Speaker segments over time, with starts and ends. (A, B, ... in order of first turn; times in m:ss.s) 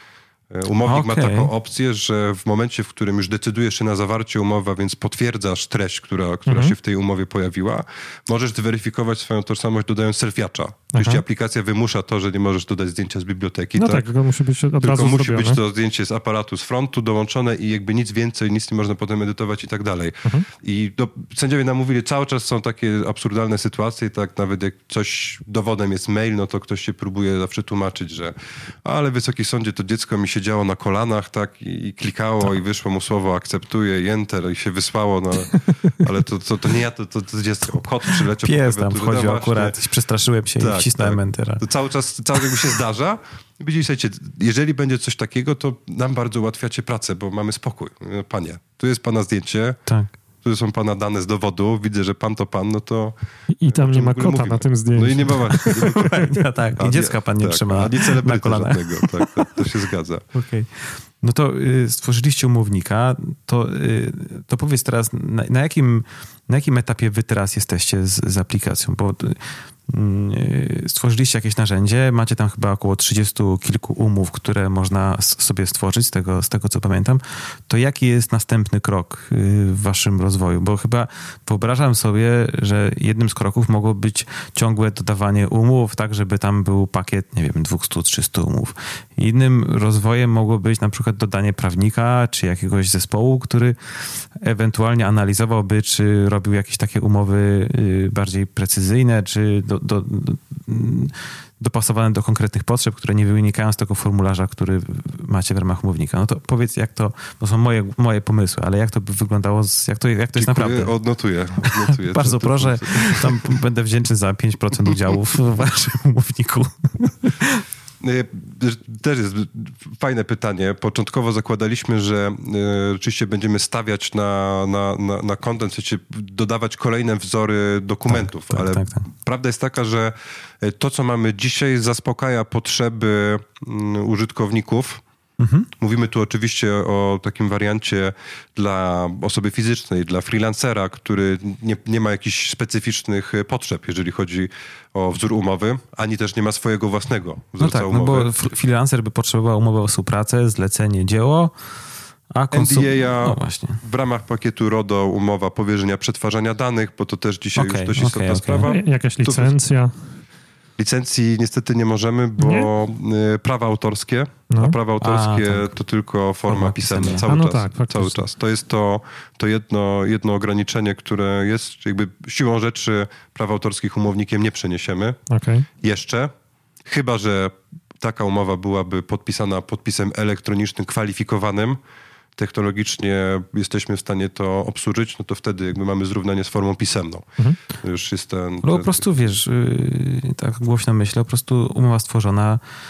0:00.5-0:14.1 A
0:00.9-0:01.5 B
0:06.5-0:06.8 C
0:11.0-0:11.2 C
0:13.8-0:15.6 C
0:14.8-0:39.8 A
0:38.4-0:41.7 B
0:40.6-0:49.8 A
0:42.3-0:42.7 B
0:49.9-0:50.1 B
0:50.4-0:53.2 A
0:53.6-0:56.3 C
0:53.7-0:56.2 A
0:55.6-0:59.7 B
0:56.8-1:00.2 A
1:00.3-1:51.0 B
1:50.4-1:53.6 A
1:51.6-1:57.6 B
1:58.0-2:15.0 A
2:08.1-2:09.0 B
2:15.4-2:15.7 B
2:15.8-2:28.3 A
2:27.6-2:31.5 B
2:32.3-2:33.8 B
2:32.5-2:39.6 A
2:37.6-2:38.8 B
2:38.6-2:39.9 C
2:40.8-2:55.2 A
2:42.4-2:42.7 C
2:44.5-2:44.8 C
2:45.0-2:45.7 B
2:46.5-2:47.3 B
2:47.3-2:48.2 C
2:55.3-2:55.7 C
2:55.8-2:56.3 A
2:56.8-3:01.8 A
3:02.4-3:09.1 A
3:08.6-3:12.6 B